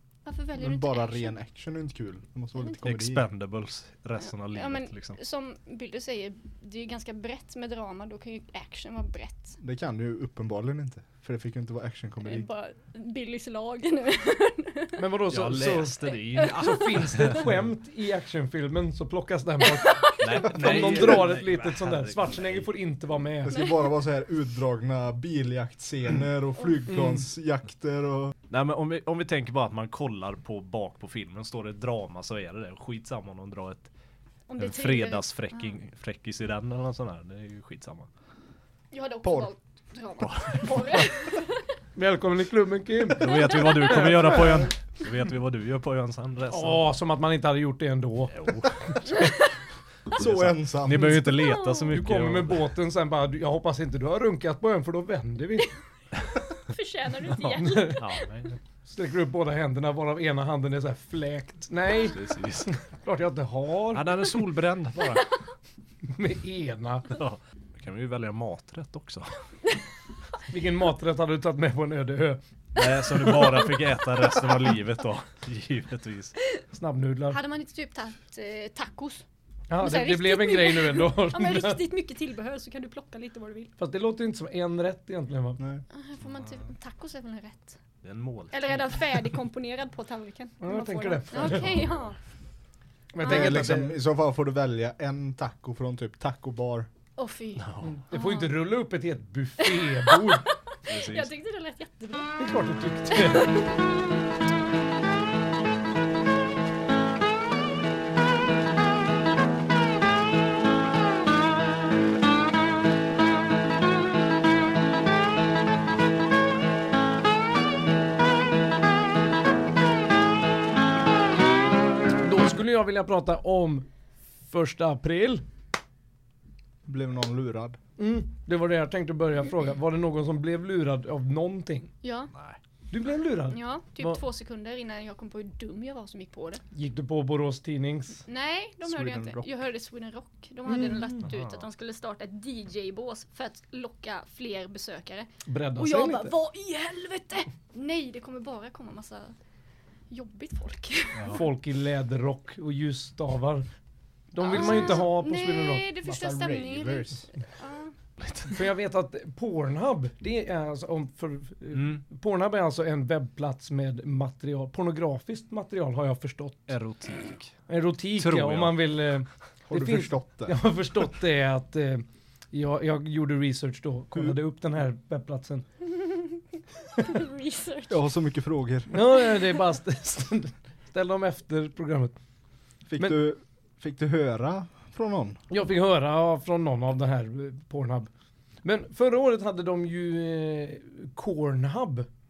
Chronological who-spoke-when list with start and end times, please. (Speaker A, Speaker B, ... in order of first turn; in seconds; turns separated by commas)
Speaker A: 0.2-1.4, Speaker B: 0.6-3.3, Speaker C: 2.8-5.2, Speaker A: 4.2-9.6, Speaker B: 9.6-12.5, Speaker A: 12.2-15.0, Speaker D: 15.0-23.6, Speaker C: 15.3-17.6, Speaker A: 16.2-17.2, Speaker A: 19.7-21.0, Speaker C: 20.2-22.7, Speaker B: 23.4-28.3, Speaker A: 23.5-23.9, Speaker D: 26.9-27.2, Speaker C: 28.5-33.9, Speaker A: 34.5-35.7, Speaker C: 34.6-38.1, Speaker A: 38.9-41.7, Speaker B: 39.2-39.5, Speaker C: 40.2-41.1, Speaker D: 42.0-44.5, Speaker C: 43.1-46.9, Speaker A: 43.5-44.1, Speaker D: 46.5-49.2, Speaker C: 48.3-49.2, Speaker C: 50.1-52.7, Speaker B: 50.2-51.5, Speaker A: 51.3-52.0, Speaker D: 51.9-55.7, Speaker A: 56.3-58.3, Speaker D: 57.4-58.0, Speaker C: 57.5-58.6, Speaker D: 58.9-64.1, Speaker C: 62.0-62.7, Speaker C: 63.9-65.3, Speaker D: 66.0-67.1, Speaker C: 67.1-69.3, Speaker D: 70.5-72.4, Speaker C: 72.7-76.3, Speaker D: 76.7-77.4, Speaker A: 77.3-79.2, Speaker D: 79.7-81.8, Speaker A: 79.8-83.7, Speaker D: 83.8-85.6, Speaker A: 85.9-87.8, Speaker C: 88.0-88.8, Speaker A: 88.5-92.2, Speaker D: 90.6-91.7, Speaker C: 91.4-91.9, Speaker D: 93.1-94.0, Speaker A: 93.2-93.7, Speaker B: 93.2-96.9, Speaker A: 97.2-98.6, Speaker C: 97.6-98.0, Speaker D: 97.8-100.5, Speaker A: 99.6-102.4, Speaker C: 100.9-101.3, Speaker D: 102.4-103.7, Speaker A: 103.1-103.7, Speaker D: 122.2-123.9, Speaker D: 124.5-125.5, Speaker B: 126.8-127.8, Speaker D: 128.0-131.9, Speaker A: 132.0-132.3, Speaker C: 132.3-132.6, Speaker D: 132.9-134.2, Speaker A: 133.5-136.6, Speaker D: 136.7-138.2, Speaker A: 138.3-149.3, Speaker B: 138.8-139.4, Speaker D: 140.7-141.2, Speaker C: 141.3-141.6, Speaker D: 145.5-146.3, Speaker A: 150.1-151.4, Speaker C: 151.2-151.4, Speaker D: 151.3-153.7, Speaker D: 154.3-155.9, Speaker A: 154.4-157.9, Speaker B: 156.0-157.3, Speaker C: 158.2-158.7, Speaker D: 158.5-166.7, Speaker C: 161.7-162.0, Speaker C: 166.7-167.6, Speaker D: 167.7-175.6, Speaker C: 168.2-168.8, Speaker B: 169.7-170.6, Speaker A: 176.0-176.4, Speaker A: 177.0-178.0, Speaker B: 177.9-178.9, Speaker D: 178.9-182.2, Speaker B: 182.9-185.4, Speaker D: 185.5-188.1, Speaker D: 188.6-192.1